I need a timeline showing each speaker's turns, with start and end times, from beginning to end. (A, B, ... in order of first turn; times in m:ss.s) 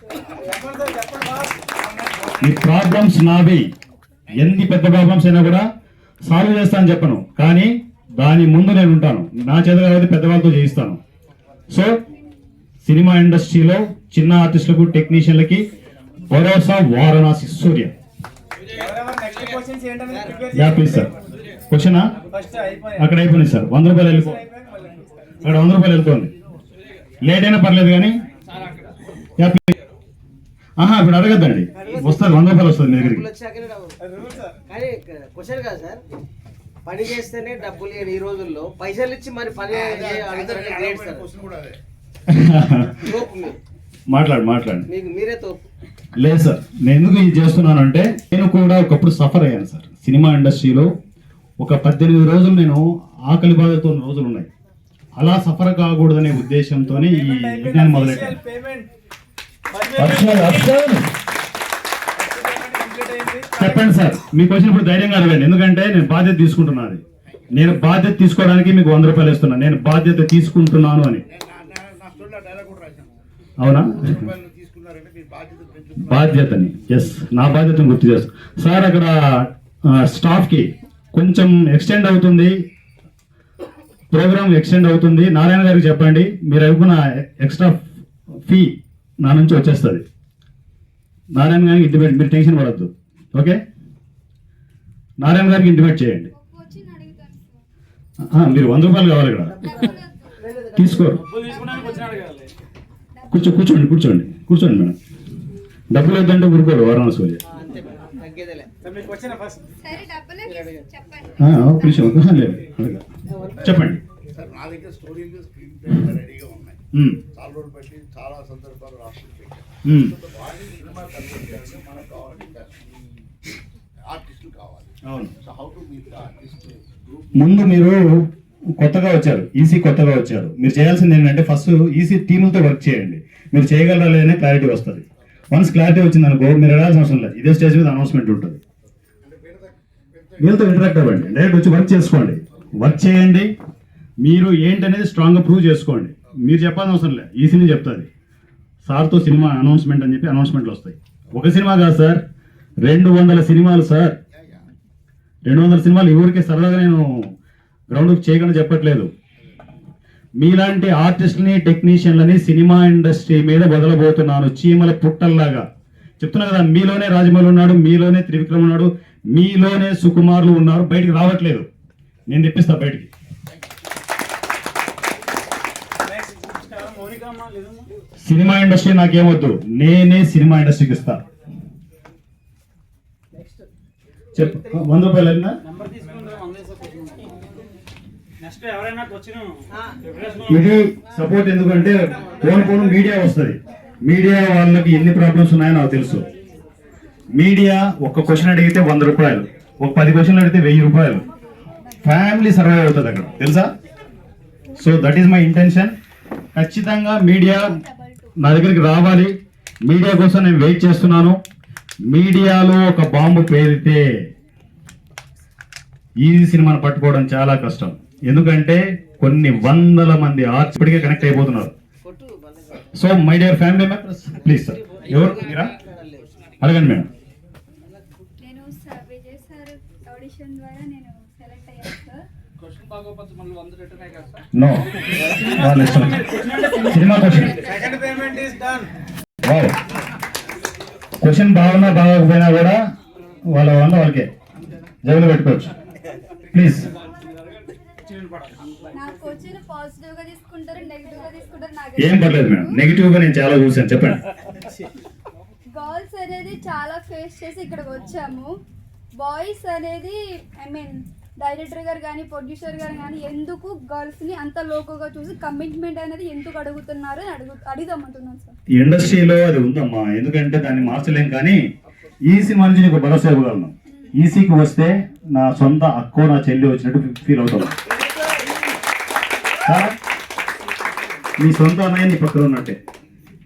0:00.4-0:02.5 A
0:02.4-0:03.7 B
0:04.3-0:05.6 B
0:06.3-0:11.0 B
0:11.7-0:12.0 B
0:12.8-0:15.6 B
0:16.3-0:17.9 B
0:18.7-0:21.1 A
0:20.5-0:21.1 B
0:21.7-0:22.1 B
0:22.2-0:23.1 A
0:23.0-0:24.4 B
0:24.0-0:25.6 A
0:25.4-0:26.3 B
0:27.2-0:28.2 B
0:29.4-0:29.7 B
0:30.8-0:33.2 B
0:31.7-0:34.0 C
0:34.0-0:34.6 A
0:34.7-0:36.0 C
0:36.8-0:41.3 C
0:39.7-0:41.8 D
0:42.3-0:43.1 B
0:43.0-0:43.6 C
0:44.1-0:44.9 B
0:44.9-0:45.6 C
0:46.2-0:50.9 B
0:51.6-0:54.5 B
0:55.2-0:58.4 B
0:56.8-0:58.9 A
0:59.7-1:00.7 A
1:00.0-1:01.1 B
1:02.2-1:03.9 A
1:03.6-1:11.2 B
1:11.3-1:13.1 D
1:13.6-1:14.3 B
1:14.1-1:16.3 D
1:16.0-1:22.5 B
1:24.1-1:27.8 B
1:28.5-1:30.0 B
1:31.3-1:33.6 B
1:35.2-1:36.3 B
1:36.3-1:37.6 E
1:38.2-1:39.6 B
1:39.6-1:41.2 C
1:39.6-1:40.4 E
1:40.8-1:41.2 B
1:41.2-1:42.5 A
1:41.3-1:42.3 E
1:43.1-1:43.6 E
1:43.3-1:44.9 B
1:45.9-1:47.4 B
1:47.5-1:48.7 C
1:48.8-1:49.6 A
1:49.6-1:52.3 E
1:50.4-1:50.8 C
1:51.4-1:53.0 B
1:53.3-1:53.7 C
1:53.6-1:54.0 B
1:54.3-2:02.8 D
1:56.9-1:57.2 B
1:59.8-2:00.2 B
2:04.1-2:07.0 D
2:05.1-2:05.3 B
2:07.4-2:08.0 B
2:08.8-2:18.6 B
2:19.2-2:20.3 D
2:20.4-2:23.5 B
2:24.2-2:28.1 B
2:28.8-2:32.2 B
2:32.8-2:34.2 B
2:34.4-2:34.6 D
2:35.4-2:37.3 B
2:37.9-2:39.1 B
2:40.4-2:45.6 B
2:46.2-2:51.7 B
2:52.3-2:53.1 B
2:56.0-2:57.9 A
2:58.2-3:01.2 B
3:03.3-3:03.6 C
3:04.3-3:05.6 B
3:05.6-3:07.4 A
3:08.4-3:10.7 A
3:09.7-3:10.0 C
3:10.5-3:16.3 B
3:17.3-3:21.2 B
3:22.0-3:23.7 B
3:24.8-3:25.9 B
3:26.5-3:27.8 B
3:27.6-3:28.4 E
3:28.4-3:29.3 B
3:29.9-3:31.4 B
3:32.1-3:34.2 B
3:36.2-3:41.7 B
3:40.8-3:41.3 C
3:42.0-3:42.9 C
3:42.9-3:45.7 B
3:44.5-3:46.3 C
3:46.6-3:47.1 B
3:48.4-3:52.3 E
3:52.6-3:54.4 A
3:54.5-3:57.6 B
3:55.2-3:58.9 A
3:59.4-3:59.8 B
4:01.2-4:02.8 B
4:03.5-4:04.3 B
4:05.0-4:05.7 B
4:06.5-4:06.9 B
4:07.1-4:08.9 A
4:08.9-4:12.8 E
4:12.0-4:14.2 B
4:15.7-4:18.5 E
4:19.2-4:28.5 E
4:28.7-4:31.6 B
4:32.3-4:37.8 B
4:38.0-4:38.4 C
4:39.6-4:39.9 B
4:41.4-4:42.8 B